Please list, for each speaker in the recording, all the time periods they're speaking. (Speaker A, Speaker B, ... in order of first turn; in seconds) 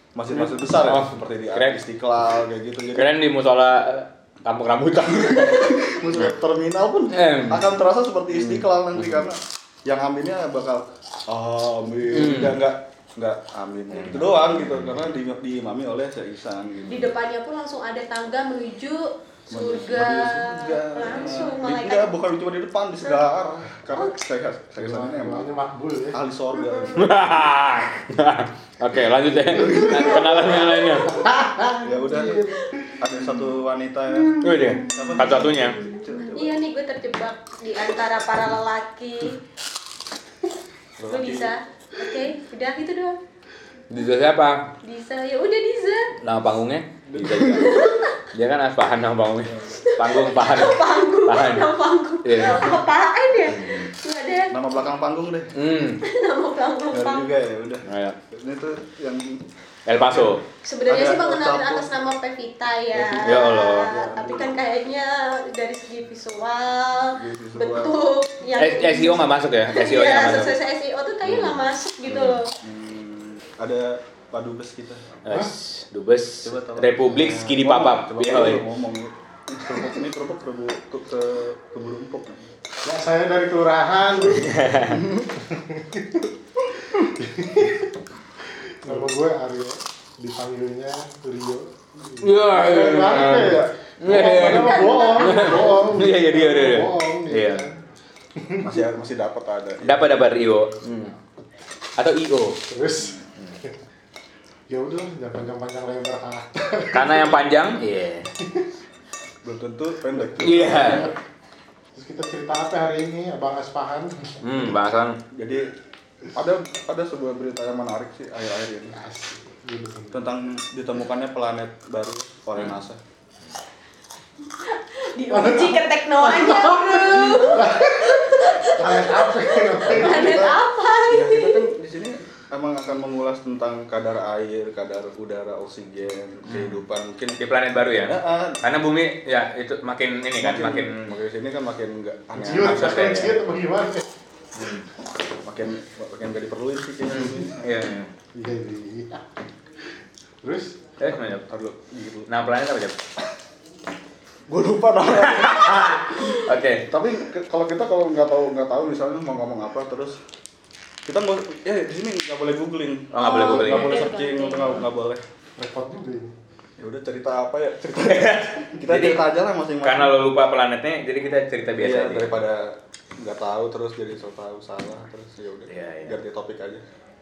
Speaker A: 0.1-3.1, 5.0-17.1, 19.5-25.5, 26.1-27.1, 29.4-30.7, 31.8-36.6, 41.0-41.5, 47.1-47.9, 54.5-55.5, 56.9-61.9, 62.9-64.6, 67.2-67.9, 72.6-75.2, 76.4-82.5, 84.9-85.2, 98.6-100.6, 109.4-111.1, 115.3-115.7, 116.3-119.0, 120.1-123.0, 129.8-137.4, 138.0-138.6, 140.4-143.3, 145.4-147.6, 151.5-152.3, 154.5-156.3, 156.8-160.2, 161.1-165.2, 166.8-170.2, 171.8-176.8
Speaker B: 0.3-1.8, 2.9-6.2, 7.1-7.7, 8.3-9.3, 12.1-12.6, 13.9-15.0, 26.9-31.2, 34.4-35.8, 43.9-44.7, 46.2-51.7, 52.2-52.8, 53.5-53.9, 55.5-56.0, 57.9-58.2, 59.9-60.4, 63.2-64.0, 68.6-70.5, 71.2-72.4, 75.2-78.6, 84.3-85.1, 92.2-97.7, 99.8-101.1, 102.0-102.7, 106.9-108.3, 110.4-111.1, 114.4-115.2, 136.5-136.8, 137.4-141.2, 142.6-143.4, 144.6-144.9, 147.1-148.1, 151.0-151.5, 152.3-153.0, 155.1-156.9, 163.1-164.1, 168.0-169.2, 169.8-172.4, 175.7-176.2
Speaker C: 16.9-22.1, 26.6-27.0, 36.2-39.4, 41.1-43.2, 44.8-46.1, 47.6-48.2, 49.8-54.6, 56.0-57.3, 60.6-72.5, 94.8-95.5, 124.6-131.7, 163.1-164.8
Speaker D: 24.8-26.2, 31.0-33.0, 34.3-34.7, 82.8-86.3, 86.9-87.9, 88.8-97.8, 98.4-98.8, 102.7-103.2, 104.7-107.5, 108.4-108.7, 110.2-111.1, 111.9-114.7, 118.9-120.2, 125.3-130.4, 142.3-144.1, 148.3-149.3, 150.4-150.8, 165.6-166.3